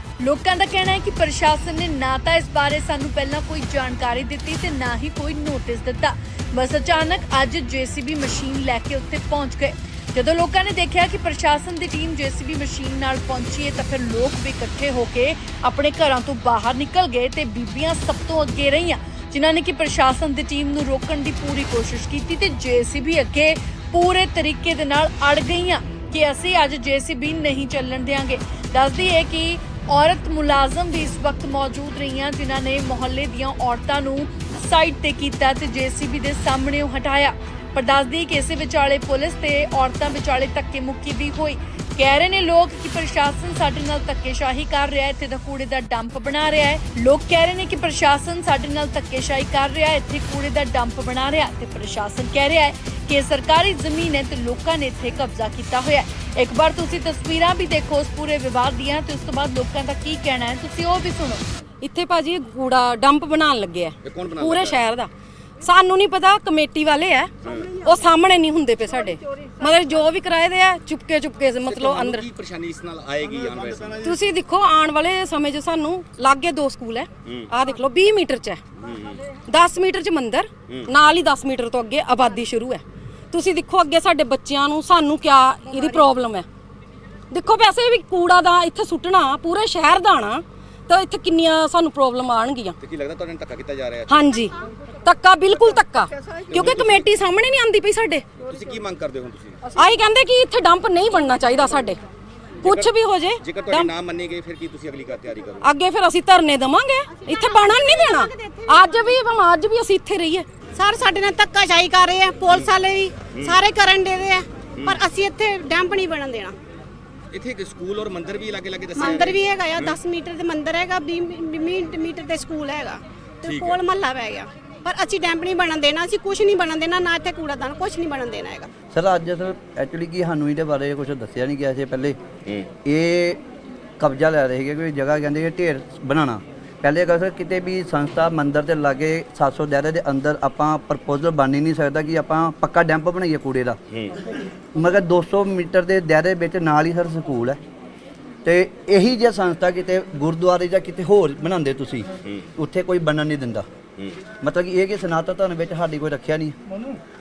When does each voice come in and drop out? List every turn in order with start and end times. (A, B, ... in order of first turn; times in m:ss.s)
0:00.2-1:01.4 A
1:01.8-1:05.1 B
1:04.0-1:04.8 C
1:05.6-1:12.2 B
1:07.4-1:07.8 C
1:11.7-1:14.2 C
1:14.0-1:18.6 B
1:17.3-1:17.5 C
1:18.8-1:19.3 C
1:19.4-1:26.5 B
1:27.3-1:32.8 B
1:32.8-1:34.1 C
1:34.1-1:38.3 B
1:36.5-1:37.1 C
1:38.4-1:39.7 C
1:39.7-1:42.0 B
1:42.6-1:43.9 B
1:42.6-1:45.7 C
1:45.6-1:50.5 B
1:50.8-1:56.6 D
1:53.3-1:53.6 C
1:57.3-2:00.0 C
1:59.0-2:08.7 D
2:03.4-2:03.8 C
2:08.9-2:12.2 E
2:12.8-2:13.4 E
2:14.0-2:23.8 E
2:24.8-2:27.6 E
2:28.4-2:33.7 E
2:34.4-2:36.6 E